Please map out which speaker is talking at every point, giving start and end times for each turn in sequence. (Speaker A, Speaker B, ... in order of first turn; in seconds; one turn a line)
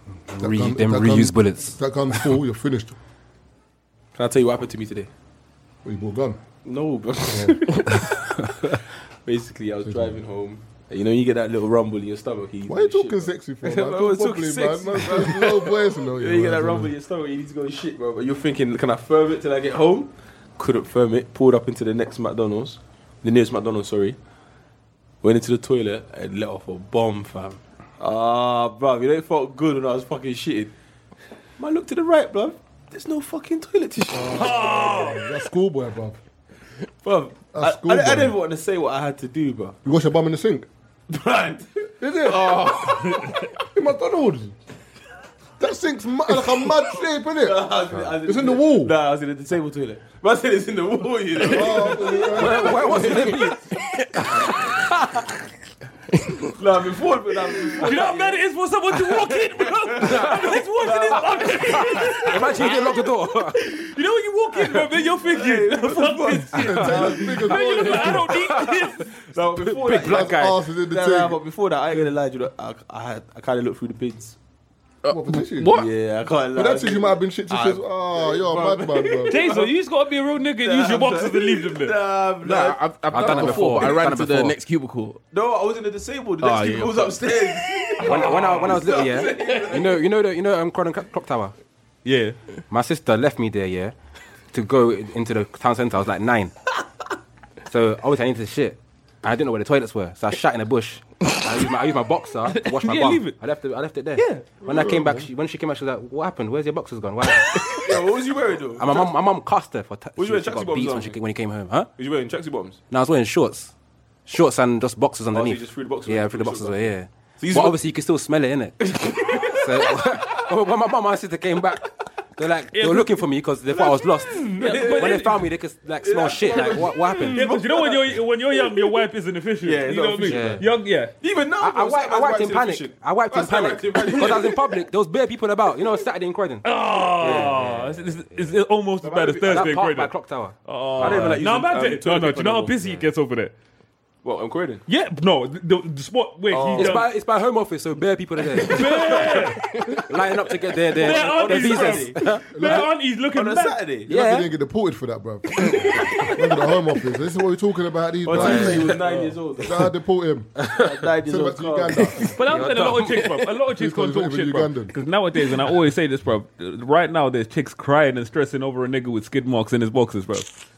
Speaker A: 0.3-1.8
Speaker B: 0.4-3.0
Speaker C: 4.2-5.1
Speaker B: 5.8-6.4
Speaker C: 6.6-8.7
Speaker B: 7.3-7.6
Speaker C: 9.2-24.2
Speaker B: 9.8-10.2
Speaker B: 12.7-16.9
Speaker C: 25.2-30.7
Speaker C: 31.6-34.7
Speaker B: 34.1-36.2
Speaker D: 34.3-35.2
Speaker C: 37.0-39.8
Speaker B: 37.5-38.3
Speaker B: 39.8-40.7
Speaker C: 41.1-43.5
Speaker B: 42.0-42.8
Speaker B: 43.7-44.5
Speaker B: 45.6-48.9
Speaker C: 47.4-53.5
Speaker B: 51.4-53.1
Speaker A: 52.3-55.1
Speaker C: 56.6-58.4
Speaker D: 57.8-62.9
Speaker C: 59.1-62.6
Speaker A: 62.1-63.6
Speaker D: 63.5-69.1
Speaker C: 65.2-68.1
Speaker B: 66.6-68.3
Speaker A: 66.7-67.2
Speaker A: 68.3-68.8
Speaker C: 69.3-74.3
Speaker A: 69.6-70.6
Speaker B: 70.0-71.4
Speaker E: 75.0-75.9
Speaker B: 75.1-75.7
Speaker C: 75.7-79.7
Speaker B: 76.5-79.4
Speaker D: 79.3-81.9
Speaker C: 80.6-83.8
Speaker E: 82.4-85.2
Speaker A: 83.1-84.5
Speaker C: 85.3-90.0
Speaker E: 86.4-87.1
Speaker D: 88.0-89.0
Speaker A: 88.0-91.5
Speaker C: 92.0-92.3
Speaker A: 92.7-93.9
Speaker A: 94.5-96.5
Speaker A: 97.7-107.7
Speaker D: 102.5-103.3
Speaker D: 104.2-104.5
Speaker B: 104.7-105.1
Speaker C: 107.7-109.1
Speaker A: 108.8-111.9
Speaker C: 110.2-111.2
Speaker C: 112.0-112.8
Speaker A: 112.9-113.7
Speaker A: 114.3-118.9
Speaker C: 115.3-116.7
Speaker C: 117.4-117.8
Speaker C: 118.9-120.2
Speaker A: 119.5-127.5
Speaker D: 122.7-123.2
Speaker C: 123.7-125.2
Speaker D: 124.6-125.5
Speaker C: 126.0-128.9
Speaker D: 126.5-131.1
Speaker C: 129.6-130.6
Speaker A: 130.3-130.7
Speaker C: 131.2-134.6
Speaker A: 131.6-138.1
Speaker D: 136.6-140.1
Speaker C: 137.2-137.7
Speaker C: 139.0-139.8
Speaker A: 139.4-141.4
Speaker D: 140.6-143.5
Speaker C: 141.0-142.8
Speaker C: 144.2-144.8
Speaker D: 144.9-147.1
Speaker C: 146.5-147.0
Speaker A: 146.7-152.5
Speaker D: 148.6-150.0
Speaker C: 150.9-152.8
Speaker D: 150.9-153.8
Speaker B: 152.5-152.9
Speaker C: 153.3-154.1
Speaker A: 154.1-154.5
Speaker B: 154.1-159.0
Speaker D: 155.7-156.6
Speaker C: 158.2-159.9
Speaker A: 158.3-158.9
Speaker D: 158.4-159.3
Speaker B: 159.6-160.6
Speaker A: 160.6-160.8
Speaker C: 160.7-162.3
Speaker B: 161.2-162.2
Speaker A: 162.2-163.4
Speaker D: 162.3-170.5
Speaker B: 163.8-164.9